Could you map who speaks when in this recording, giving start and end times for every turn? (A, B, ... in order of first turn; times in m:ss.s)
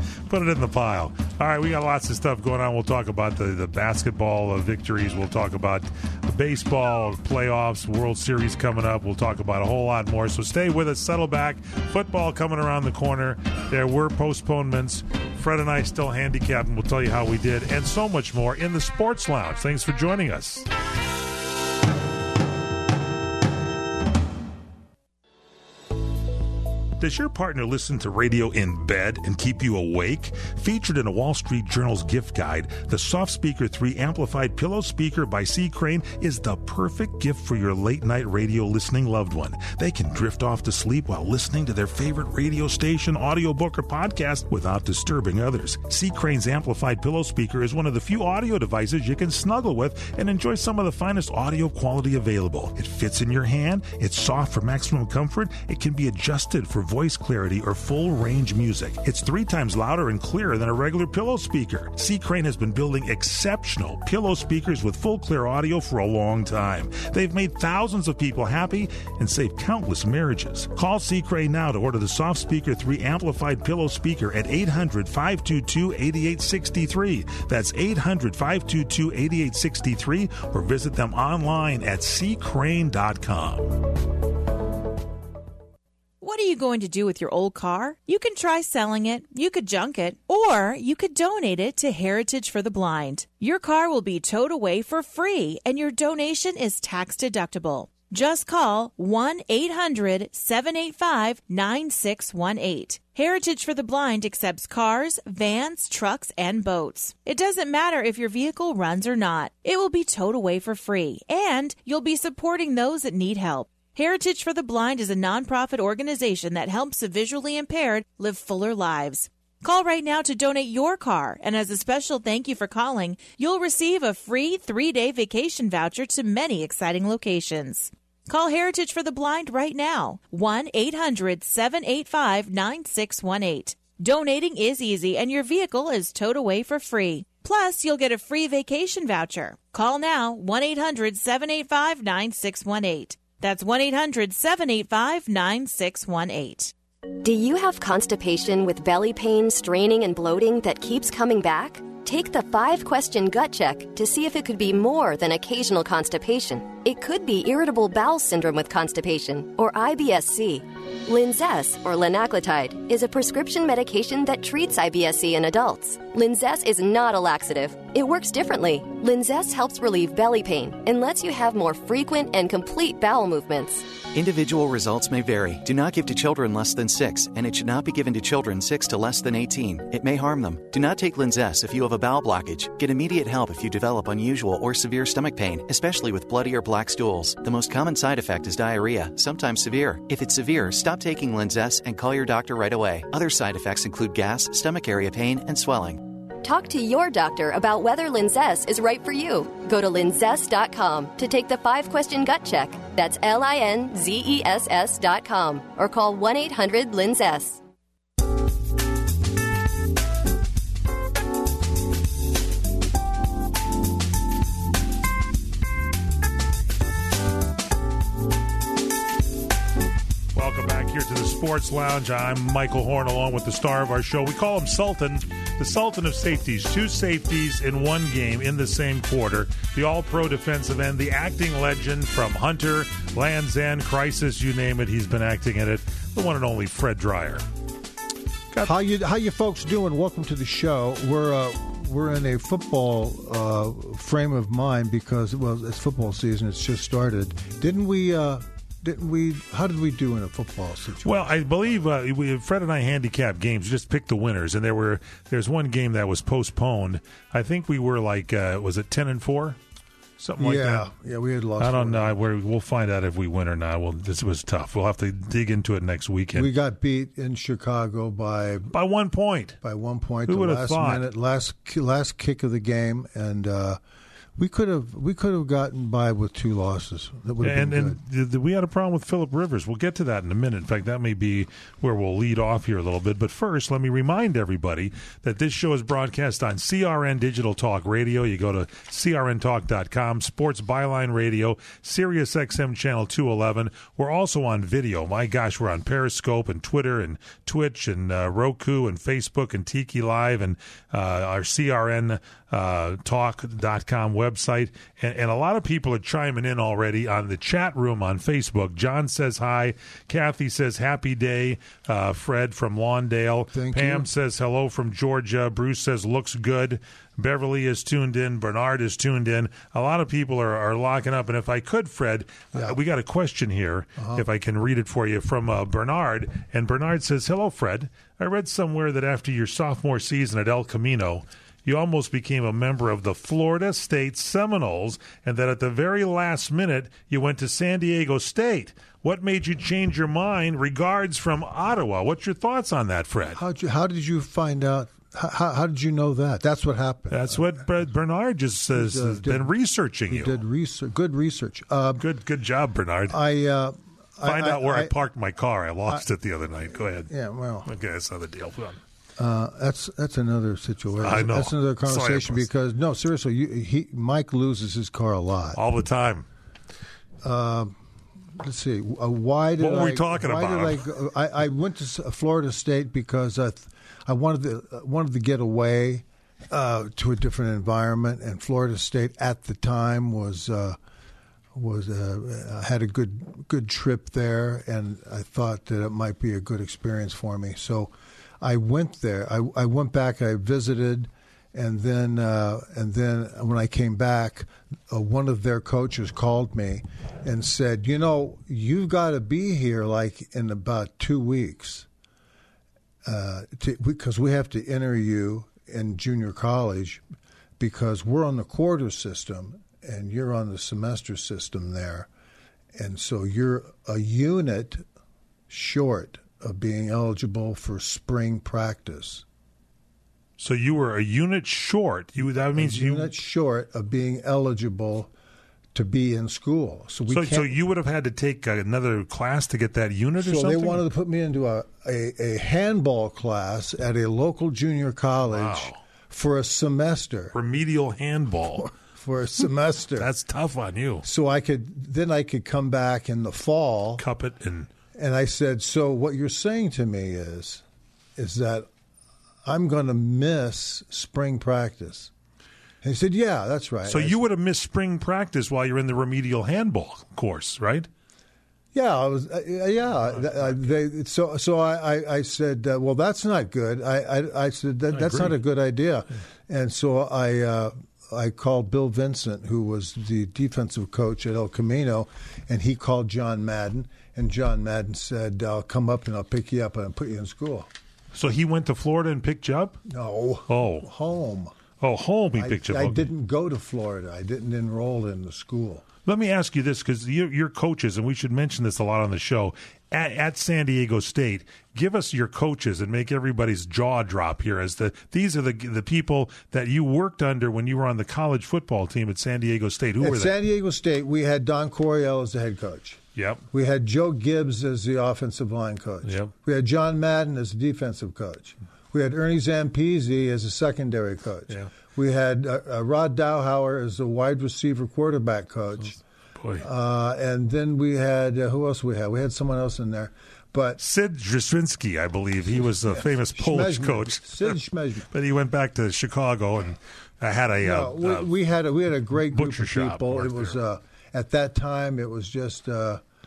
0:00.3-0:20.7 A
0:27.0-1:23.9 A
1:26.2-2:26.7 B
2:27.2-2:53.9 C
2:54.1-3:16.0 D
3:16.4-3:27.6 C
3:40.3-3:57.4 A
3:58.6-4:11.2 E
4:11.0-4:19.6 A
4:20.2-4:20.9 A
4:20.4-4:22.2 E
4:21.6-4:26.5 A
4:26.3-4:28.7 E
4:28.7-4:29.6 A
4:29.6-4:33.8 E
4:30.3-4:31.1 A
4:34.4-4:38.0 E
4:37.4-5:43.4 A
5:13.5-5:14.1 E
5:24.0-5:24.2 E
5:43.4-5:47.6 E
5:47.1-5:50.4 A
5:48.7-5:49.5 E
5:50.1-5:52.0 E
5:52.0-5:53.2 A
5:53.1-5:54.9 E
5:54.2-5:57.1 A
5:56.8-5:57.7 E
5:57.7-5:58.8 A
5:59.2-6:05.6 E
6:01.0-6:02.5 A
6:05.5-6:06.3 A
6:07.2-6:07.8 E
6:08.4-6:20.8 E
6:09.6-6:10.9 A
6:21.5-6:41.9 E
6:43.0-6:47.0 E
6:47.6-6:52.1 E
6:52.8-6:54.8 E
6:55.5-6:59.2 E
7:00.4-7:03.1 A
7:02.5-7:05.1 E
7:05.7-7:07.6 E
7:07.1-7:10.8 A
7:10.2-7:17.3 E
7:15.3-7:15.8 A
7:17.3-7:18.7 A
7:18.6-7:20.1 E
7:20.0-7:21.0 A
7:21.0-7:24.0 E
7:24.0-7:24.7 A
7:24.9-7:27.6 E
7:28.2-7:28.7 E
7:29.4-7:32.1 E
7:32.8-7:34.2 E
7:33.9-7:37.9 A
7:38.7-7:57.7 E
7:40.1-7:40.7 A
7:44.9-7:45.4 A
7:58.1-7:59.8 A
7:59.8-8:01.5 E
8:00.5-8:00.9 A
8:01.8-8:03.1 A
8:02.3-8:05.8 E
8:06.0-8:20.4 A
8:20.0-8:23.0 E
8:23.2-8:23.4 A
8:23.5-8:36.0 E
8:26.0-8:26.3 A
8:36.4-8:36.6 A
8:36.6-8:40.8 E
8:40.8-8:44.6 A
8:42.8-8:45.1 E
8:45.1-8:48.3 A
8:47.6-8:53.0 E
8:49.3-8:50.6 A